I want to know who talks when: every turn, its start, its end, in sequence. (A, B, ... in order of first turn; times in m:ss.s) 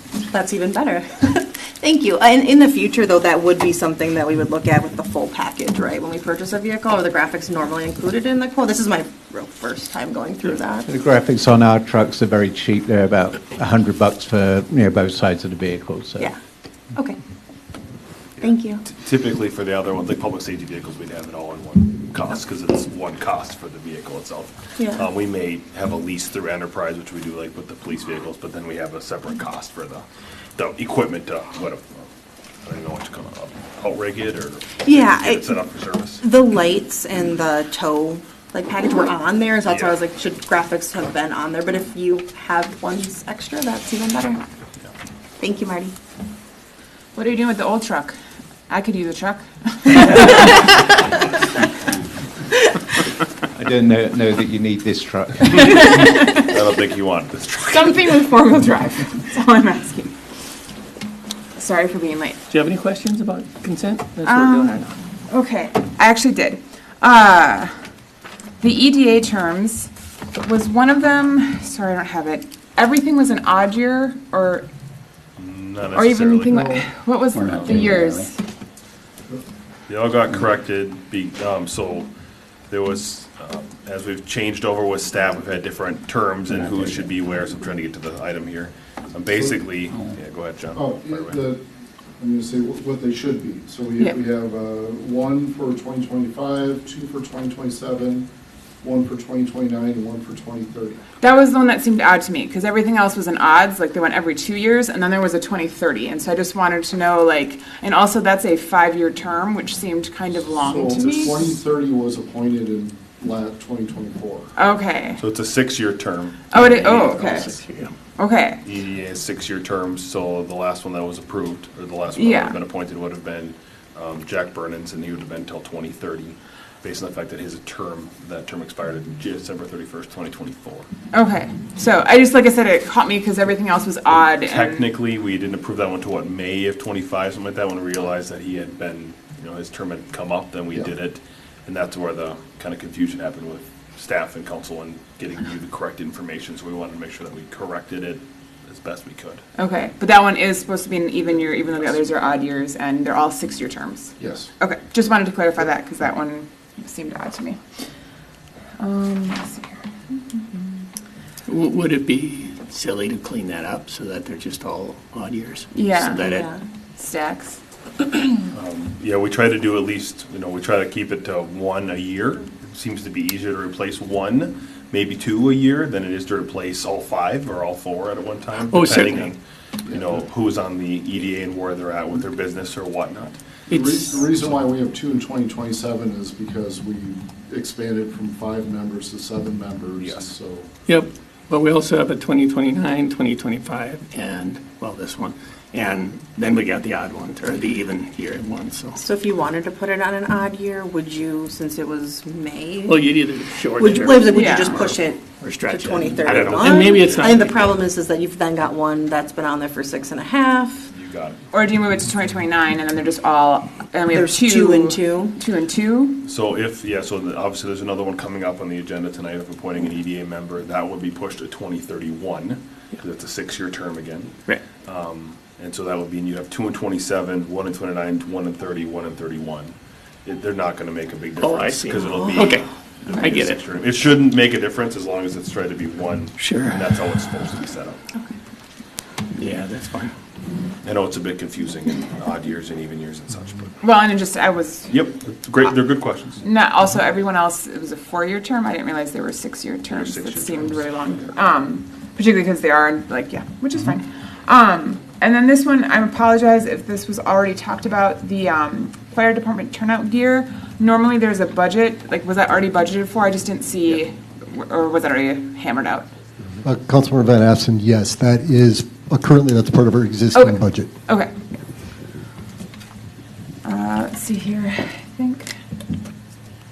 0:00.3-0:10.9 A
0:10.9-0:16.2 B
0:18.4-0:18.8 A
0:18.8-0:30.0 C
0:24.8-0:25.1 A
0:30.6-0:32.1 C
0:32.6-0:36.2 C
0:34.8-0:35.6 A
0:36.2-0:44.4 A
0:39.6-0:40.0 C
0:45.4-0:46.0 A
0:47.2-0:48.2 D
0:48.7-0:50.7 D
0:53.6-0:55.9 B
0:55.5-0:58.3 C
0:55.8-0:56.5 D
0:57.7-1:00.1 D
1:01.6-1:02.4 D
1:02.5-1:04.9 E
1:04.2-1:07.7 D
1:08.6-1:14.7 D
1:15.4-1:16.6 C
1:16.0-1:18.4 D
1:17.5-1:17.9 C
1:19.9-1:22.1 C
1:22.7-1:31.4 C
1:29.3-1:29.6 F
1:30.7-1:31.6 F
1:32.2-1:38.3 F
1:38.8-1:41.0 F
1:41.2-1:51.5 D
1:50.6-1:54.5 F
1:51.0-1:51.4 C
1:54.6-1:55.2 D
1:55.2-1:57.5 C
1:56.5-1:57.6 D
1:56.5-1:58.0 E
1:58.2-1:58.6 D
1:58.6-2:10.9 C
2:02.2-2:02.6 D
2:11.1-2:14.9 D
2:14.4-2:29.4 C
2:29.6-2:37.6 D
2:31.5-2:32.0 C
2:34.2-2:34.5 F
2:38.8-2:40.2 D
2:41.5-2:46.5 E
2:45.7-2:46.2 D
2:46.3-2:46.6 A
2:47.0-2:47.6 D
2:48.5-3:03.4 C
2:58.6-2:59.3 E
2:59.9-3:00.3 F
3:03.7-3:04.2 E
3:03.7-3:10.7 F
3:10.0-3:10.3 C
3:10.9-3:19.0 E
3:19.0-3:23.1 A
3:22.8-3:27.8 E
3:23.7-3:30.9 A
3:24.3-3:24.8 D
3:26.2-3:27.4 C
3:30.9-3:31.4 C
3:31.5-3:36.2 D
3:34.1-3:35.4 A
3:36.2-3:49.7 C
3:50.2-3:58.0 C
3:51.4-3:53.6 E
3:56.4-3:57.0 E
3:59.4-4:00.1 E
4:00.8-4:03.7 C
4:03.8-4:04.9 D
4:04.9-4:06.4 C
4:06.4-4:26.1 D
4:09.9-4:11.3 C
4:26.6-4:30.9 G
4:30.3-4:31.3 D
4:33.6-4:35.5 D